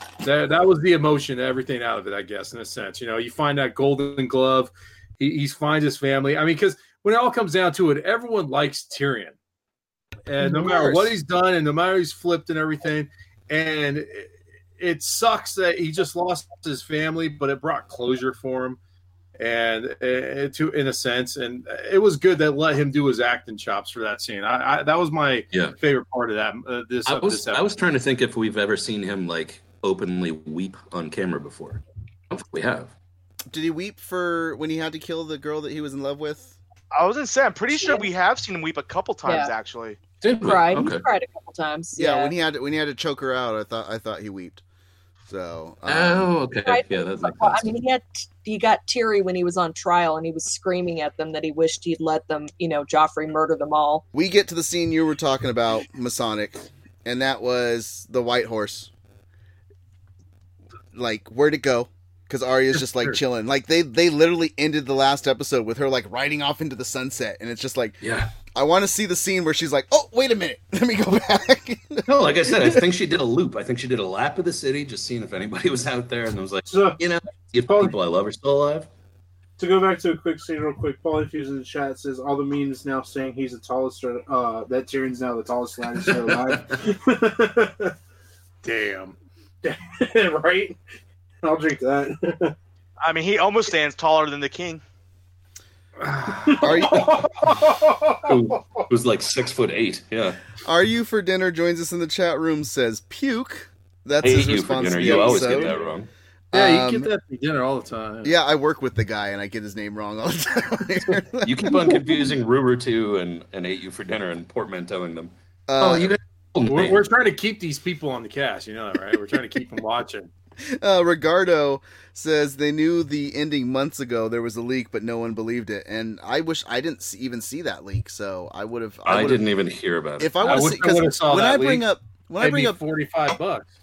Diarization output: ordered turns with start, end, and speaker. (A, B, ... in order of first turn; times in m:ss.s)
0:00.2-0:09.3 A
0:10.2-0:18.8 A
0:19.4-0:27.7 A
0:27.0-0:32.9 B
0:33.5-0:36.6 C
0:36.9-0:40.0 D
0:39.2-0:39.5 E
0:40.2-0:41.0 B
0:40.4-0:42.3 E
0:42.0-0:44.6 C
0:45.3-0:46.3 C
0:45.9-0:47.7 B
0:46.6-0:54.0 E
0:54.1-0:58.9 C
1:00.9-1:08.0 C
1:08.0-1:08.3 B
1:08.5-1:12.8 C
1:12.0-1:18.9 B
1:16.6-1:17.0 F
1:19.6-1:27.9 F
1:28.6-1:29.1 A
1:29.6-1:30.8 F
1:31.4-1:32.5 F
1:33.0-1:34.8 D
1:36.0-1:36.9 A
1:36.4-1:38.8 F
1:36.6-1:37.1 C
1:38.2-1:40.4 B
1:40.6-1:45.8 C
1:44.2-1:46.1 B
1:45.2-1:45.7 F
1:46.5-1:47.1 C
1:46.5-1:48.3 A
1:48.2-1:52.3 C
1:51.4-1:57.0 B
1:55.7-1:56.1 C
1:56.6-2:00.3 A
2:00.6-2:09.4 C
2:09.0-2:10.7 B
2:10.2-2:12.8 C
2:10.4-2:11.9 A
2:12.4-2:13.6 A